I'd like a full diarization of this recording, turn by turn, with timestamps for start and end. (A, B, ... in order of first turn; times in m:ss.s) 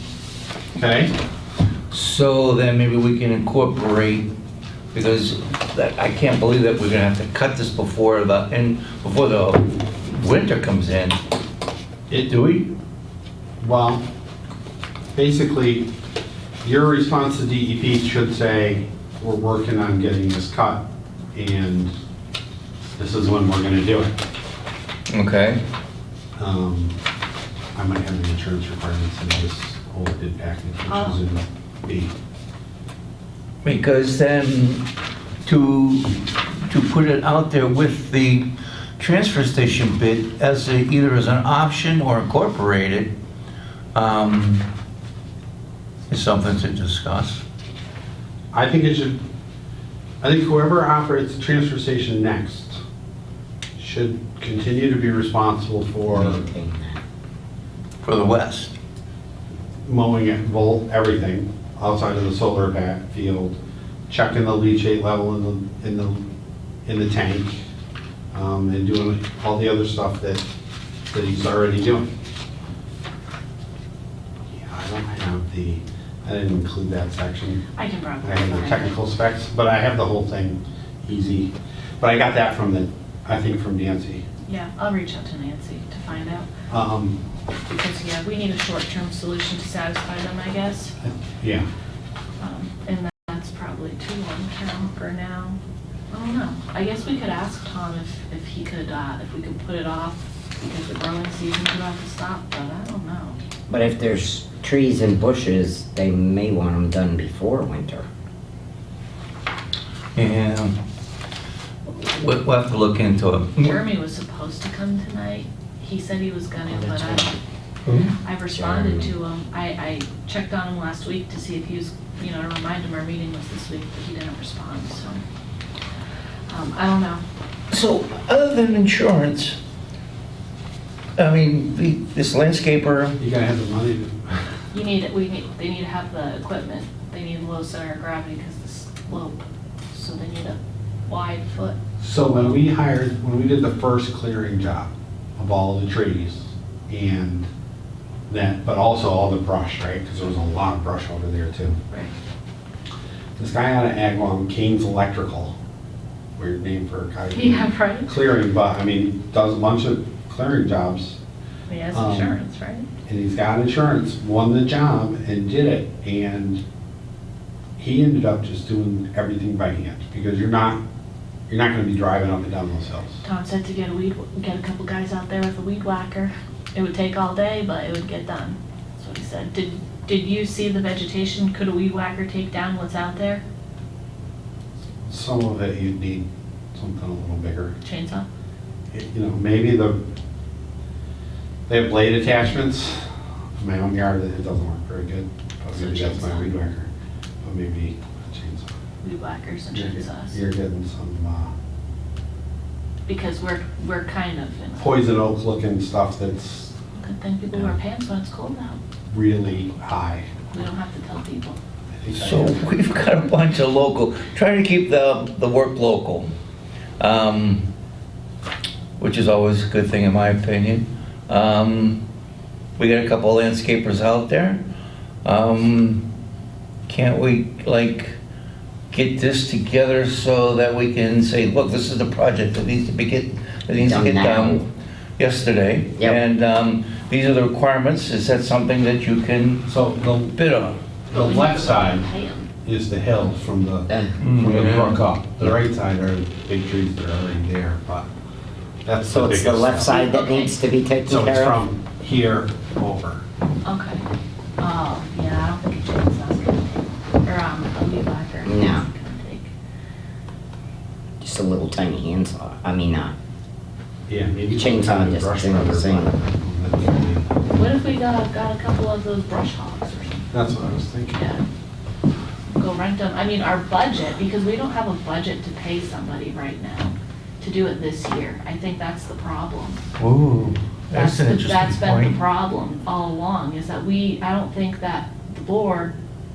0:00.7-0:01.1 A
0:01.9-0:04.3 B
0:04.9-0:11.2 B
0:12.1-0:12.7 B
0:13.6-0:14.0 A
0:15.1-0:15.9 A
0:16.6-0:21.9 A
0:23.0-0:24.1 A
0:25.1-0:25.6 B
0:26.4-0:27.0 A
0:27.7-0:32.1 A
0:30.9-0:31.2 C
0:33.6-0:34.8 B
0:35.4-0:43.1 B
0:43.9-0:44.6 B
0:46.1-0:47.4 B
0:48.5-0:49.2 A
0:50.2-0:52.8 A
0:53.8-0:56.4 A
0:56.1-0:57.0 D
0:58.0-0:58.7 B
0:59.8-1:03.6 A
1:04.1-1:06.2 A
1:06.8-1:07.6 A
1:08.3-1:10.4 A
1:11.1-1:12.1 A
1:14.5-1:17.6 A
1:17.8-1:19.0 C
1:18.2-1:24.2 A
1:24.4-1:26.5 C
1:26.7-1:27.2 A
1:27.7-1:31.0 C
1:31.0-1:31.7 A
1:32.4-1:35.6 C
1:36.1-1:43.4 C
1:43.7-1:48.0 D
1:50.2-1:50.8 B
1:51.9-1:53.8 B
1:53.6-1:57.4 C
1:56.7-1:57.3 D
1:57.8-1:58.1 B
1:58.2-2:05.2 C
1:58.6-1:59.1 D
2:06.5-2:07.2 C
2:07.7-2:09.6 B
2:11.2-2:13.2 B
2:13.2-2:14.4 A
2:14.7-2:21.8 C
2:22.0-2:27.5 A
2:28.3-2:31.8 A
2:33.4-2:35.6 A
2:36.4-2:41.2 A
2:37.3-2:38.1 C
2:41.7-2:42.8 C
2:41.9-2:42.3 A
2:43.1-2:46.6 A
2:47.8-2:50.8 A
2:51.5-2:53.2 A
2:53.2-3:03.4 C
3:05.0-3:07.7 A
3:07.8-3:08.2 C
3:08.9-3:10.0 A
3:11.7-3:13.0 A
3:13.6-3:16.9 A
3:15.7-3:16.5 C
3:17.4-3:18.7 A
3:19.0-3:20.4 C
3:19.7-3:21.5 A
3:23.0-3:25.0 C
3:24.8-3:26.7 A
3:26.9-3:28.8 C
3:29.1-3:30.3 A
3:30.5-3:31.6 C
3:31.9-3:32.7 A
3:32.1-3:36.3 B
3:37.0-3:37.6 B
3:39.0-3:42.0 B
3:42.8-3:44.6 B
3:45.2-3:46.1 B
3:46.9-3:48.2 B
3:48.9-3:54.6 B
3:53.8-3:54.6 D
3:55.2-3:59.7 B
3:59.7-4:00.3 A
4:00.3-4:00.8 B
4:01.1-4:02.1 A
4:01.1-4:02.5 C
4:02.6-4:08.1 A
4:03.9-4:04.2 D
4:04.2-4:05.0 B
4:08.8-4:10.0 A
4:09.1-4:11.6 D
4:09.9-4:10.6 C
4:11.0-4:13.2 A
4:13.6-4:14.0 C
4:14.6-4:19.5 C
4:18.4-4:18.9 D
4:21.2-4:23.1 D
4:24.1-4:27.3 A
4:24.5-4:26.1 D
4:27.5-4:30.3 C
4:30.3-4:31.2 A
4:31.1-4:31.4 C
4:32.5-4:39.8 C
4:40.0-4:42.2 B
4:40.9-4:45.9 C